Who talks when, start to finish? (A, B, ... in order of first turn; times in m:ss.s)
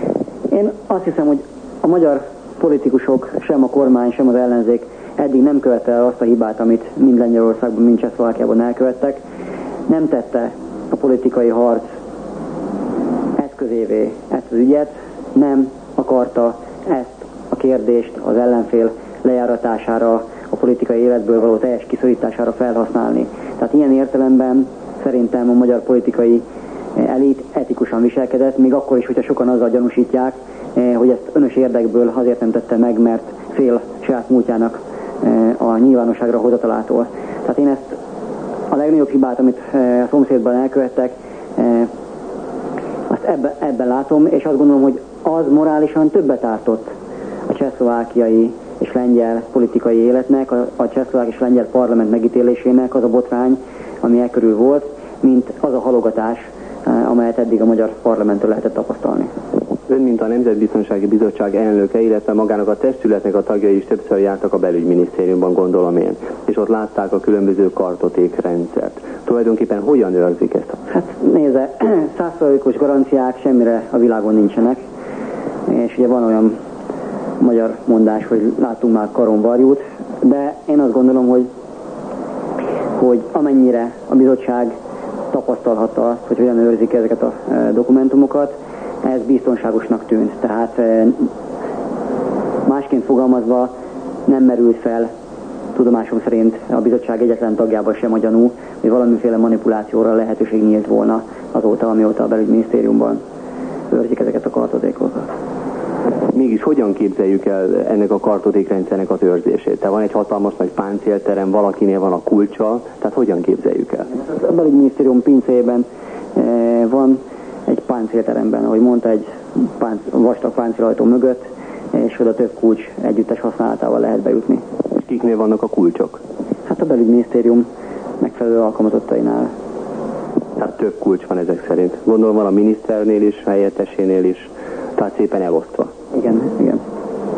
0:00.5-0:09.2 A
0:09.9-0:11.9 A
0:13.4-0:26.4 A
0:27.0-0:37.9 A
0:38.7-0:41.9 A
0:43.1-0:46.9 A
0:47.5-0:59.3 A
0:59.9-1:10.8 B
1:10.9-1:14.8 A
1:15.7-1:16.6 A
1:17.4-1:21.5 A
1:23.0-1:24.8 A
1:25.3-1:31.3 A
1:32.6-1:33.7 A
1:34.3-1:35.1 A
1:35.8-1:43.2 A
1:43.9-1:45.3 A
1:46.3-1:54.1 B
1:54.2-2:04.6 A
2:05.0-2:06.2 B
2:06.7-2:07.7 A
2:08.2-2:09.5 A
2:10.6-2:15.9 B
2:16.1-2:16.8 A